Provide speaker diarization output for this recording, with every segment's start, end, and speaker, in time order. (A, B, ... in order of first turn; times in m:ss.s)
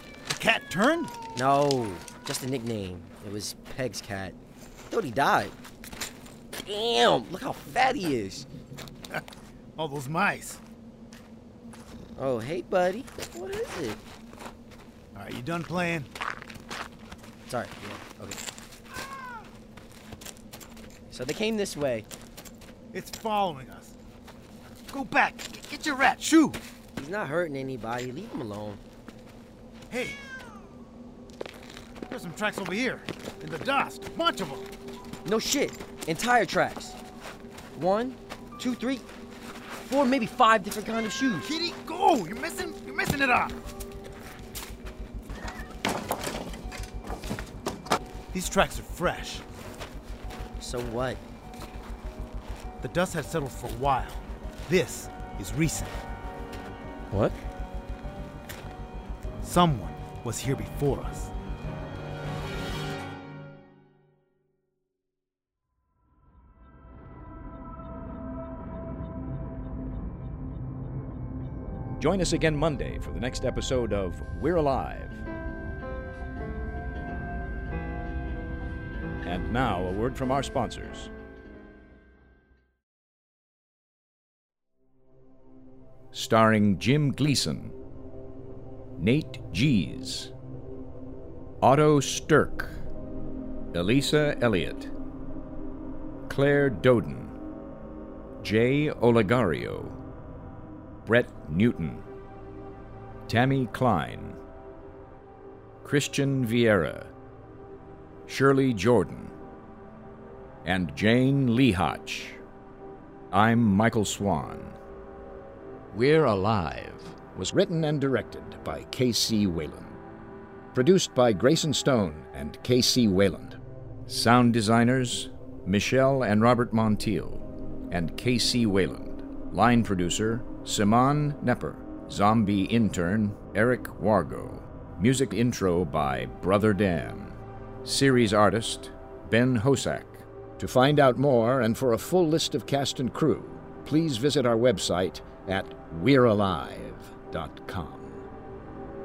0:00.3-0:01.1 A
0:01.4-0:04.4 B
0:04.9-0:05.6 B
0:06.6-0:08.5 B
0:09.8-0:10.6 A
0:12.2-0:14.0 B
0:15.2-0:16.1 A
0:17.5-0:18.4 B
0:21.1-0:22.1 B
0:22.9-0:24.0 A
0:24.9-0:26.6 A
0:27.0-0:28.8 B
0:29.9-0:30.2 A
0:32.1-0:34.7 A
0:35.2-0:37.0 B
0:37.8-0:39.1 B
0:39.7-0:41.5 B
0:41.4-0:43.6 A
0:48.3-0:49.4 A
0:50.6-0:51.2 B
0:52.8-0:56.0 A
0:57.1-0:57.4 B
0:59.4-1:01.3 A
1:12.0-1:15.2 C
1:19.2-1:21.1 C
1:26.1-1:27.8 C
1:29.0-1:30.3 C
1:31.6-1:32.8 C
1:33.7-1:34.9 C
1:36.3-1:37.4 C
1:38.4-1:40.0 C
1:41.0-1:42.1 C
1:43.3-1:44.4 C
1:45.8-1:47.1 C
1:48.3-1:49.3 C
1:50.6-1:52.4 C
1:53.3-1:54.8 C
1:55.9-2:00.0 C
2:00.7-2:28.2 C